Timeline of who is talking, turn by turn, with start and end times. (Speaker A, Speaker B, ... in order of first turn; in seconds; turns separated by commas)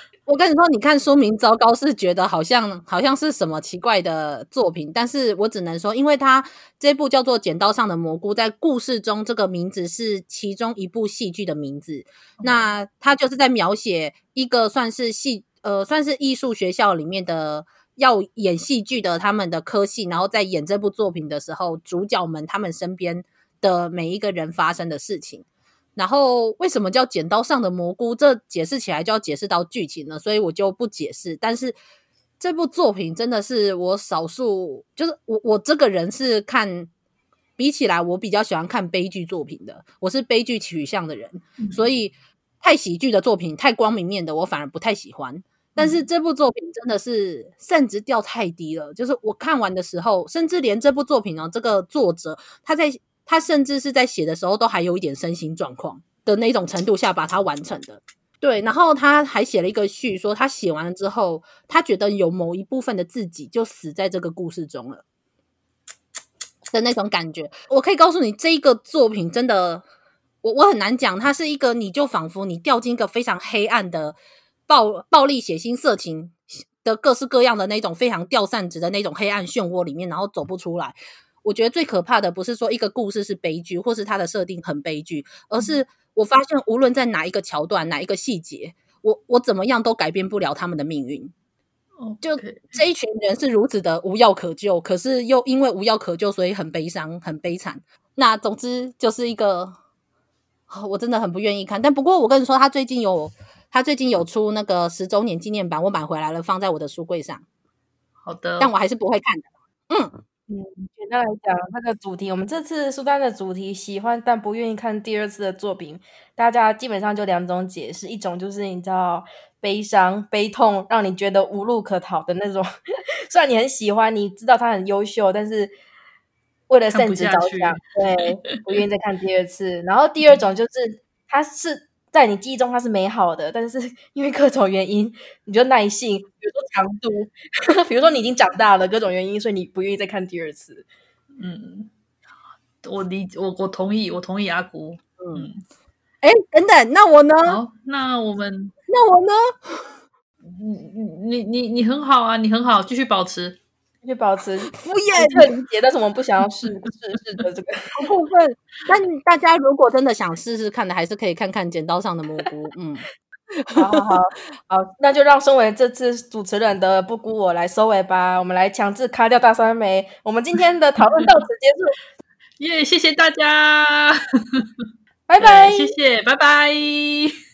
Speaker A: 0.2-25.4, Speaker B: 12.4-12.7, Speaker A: 25.9-31.8, Speaker A: 32.4-36.9, Speaker A: 37.6-65.0, Speaker B: 45.8-46.0, Speaker A: 66.7-69.8, Speaker A: 70.4-74.2, Speaker A: 74.7-91.3, Speaker B: 92.0-92.8, Speaker A: 92.2-99.8, Speaker A: 100.7-107.4, Speaker B: 108.2-108.7, Speaker A: 108.6-110.2, Speaker C: 110.5-122.7, Speaker C: 123.3-125.7, Speaker C: 126.7-140.9, Speaker B: 126.9-127.8, Speaker B: 141.4-141.9, Speaker B: 142.8-145.6, Speaker A: 145.2-145.5, Speaker A: 146.2-147.6, Speaker B: 147.4-148.7, Speaker A: 148.9-149.9, Speaker B: 150.4-153.6, Speaker C: 154.0-157.8, Speaker A: 154.7-155.5, Speaker A: 157.9-163.1, Speaker A: 163.6-164.1, Speaker C: 163.8-171.9, Speaker B: 172.6-174.6, Speaker C: 175.3-175.9, Speaker B: 175.4-177.3